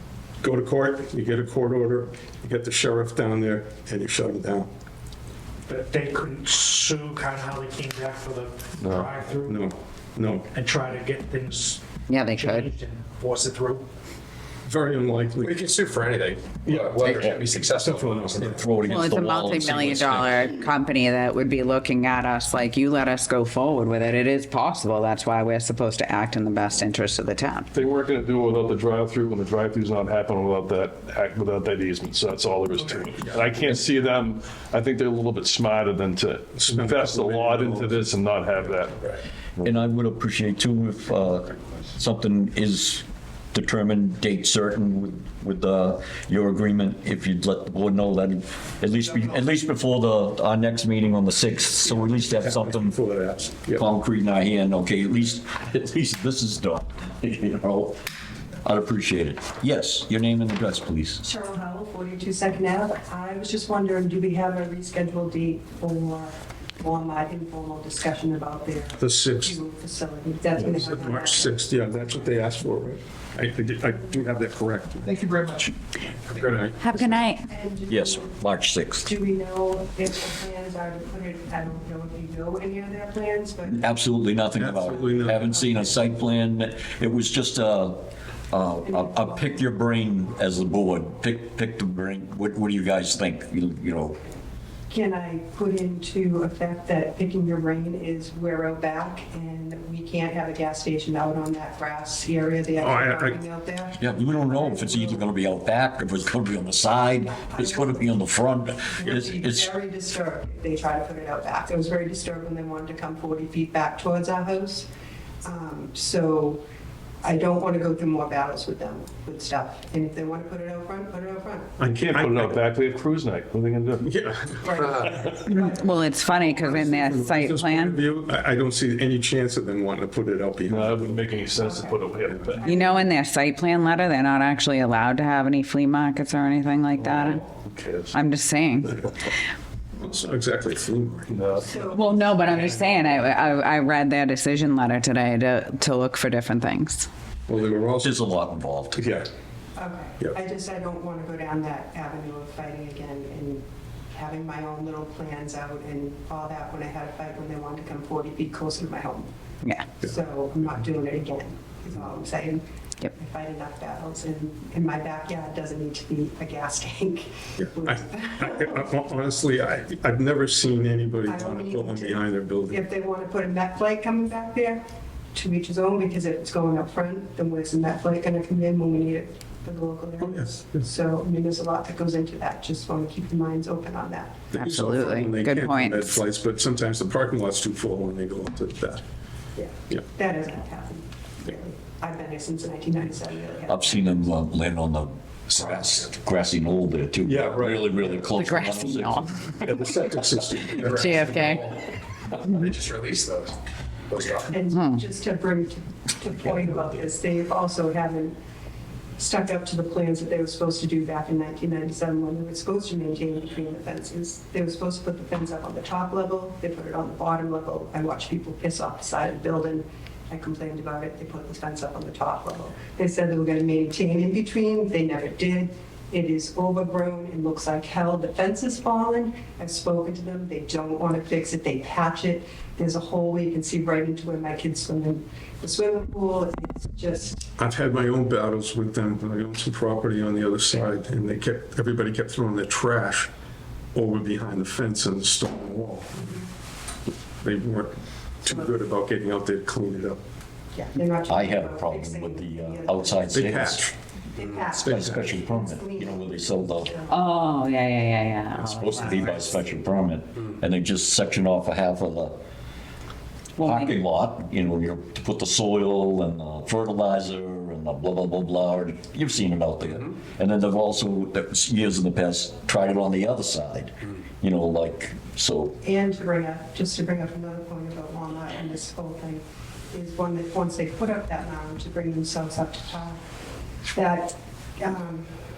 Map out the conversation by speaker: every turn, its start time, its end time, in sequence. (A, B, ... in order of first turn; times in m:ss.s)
0:00.4-0:04.7 A
0:05.7-0:09.6 B
0:09.4-0:10.5 A
0:10.5-0:11.8 B
0:12.1-0:12.7 C
0:12.3-0:13.8 B
0:14.6-0:15.6 A
0:15.4-0:18.6 D
0:16.6-0:18.6 A
0:18.4-0:20.5 E
0:18.8-0:27.7 C
0:27.7-0:39.0 F
0:36.6-0:39.2 A
0:39.6-0:53.0 E
0:52.3-0:53.8 A
0:53.7-0:58.0 E
0:58.6-1:01.2 E
1:01.2-1:11.6 G
1:09.0-1:09.6 A
1:10.6-1:15.2 A
1:15.2-1:15.7 D
1:16.3-1:17.2 A
1:16.8-1:17.4 C
1:17.0-1:18.4 G
1:17.9-1:19.1 E
1:19.0-1:23.8 G
1:23.6-1:28.0 E
1:24.6-1:25.9 A
1:28.5-1:34.2 E
1:28.8-1:29.6 G
1:34.9-1:45.3 G
1:42.8-1:43.4 A
1:44.0-1:49.7 E
1:47.4-1:48.1 G
1:48.9-1:54.9 G
1:55.4-1:56.6 G
1:57.2-2:01.8 G
2:01.8-2:02.6 A
2:01.9-2:04.1 F
2:04.0-2:05.0 A
2:04.6-2:05.8 G
2:05.4-2:08.0 C
2:06.6-2:11.3 A
2:10.7-2:12.6 F
2:11.6-2:13.1 G
2:12.6-2:17.4 C
2:17.0-2:18.1 F
2:18.1-2:19.0 C
2:20.0-2:21.6 A
2:21.3-2:21.6 F
2:21.6-2:23.1 G
2:21.9-2:27.1 C
2:27.5-2:28.2 A
2:28.0-2:29.0 E
2:29.0-2:29.3 A
2:29.8-2:39.3 G
2:40.0-2:48.8 G
2:47.6-2:52.8 A
2:51.2-3:04.5 G
3:00.2-3:00.8 A
3:04.5-3:09.0 A
3:04.5-3:06.2 C
3:09.6-3:14.3 G
3:13.7-3:19.5 E
3:17.2-3:18.3 A
3:18.3-3:19.5 C
3:19.6-3:21.2 A
3:20.7-3:21.8 D
3:20.9-3:21.6 C
3:22.4-3:23.5 D
3:24.1-3:24.5 D
3:24.5-3:28.4 G
3:24.7-3:25.0 C
3:29.2-3:57.5 G
3:57.6-4:03.3 A
4:03.9-4:06.4 A
4:07.4-4:10.2 A
4:10.7-4:13.5 G
4:11.3-4:13.9 E
4:13.3-4:13.9 A
4:14.3-4:17.2 G
4:14.7-4:15.2 A
4:14.8-4:16.9 E
4:17.1-4:19.3 C
4:18.8-4:19.2 A
4:18.8-4:22.4 E
4:23.6-4:23.9 C
4:23.6-4:35.8 E
4:35.8-4:43.2 G
4:43.9-4:45.3 G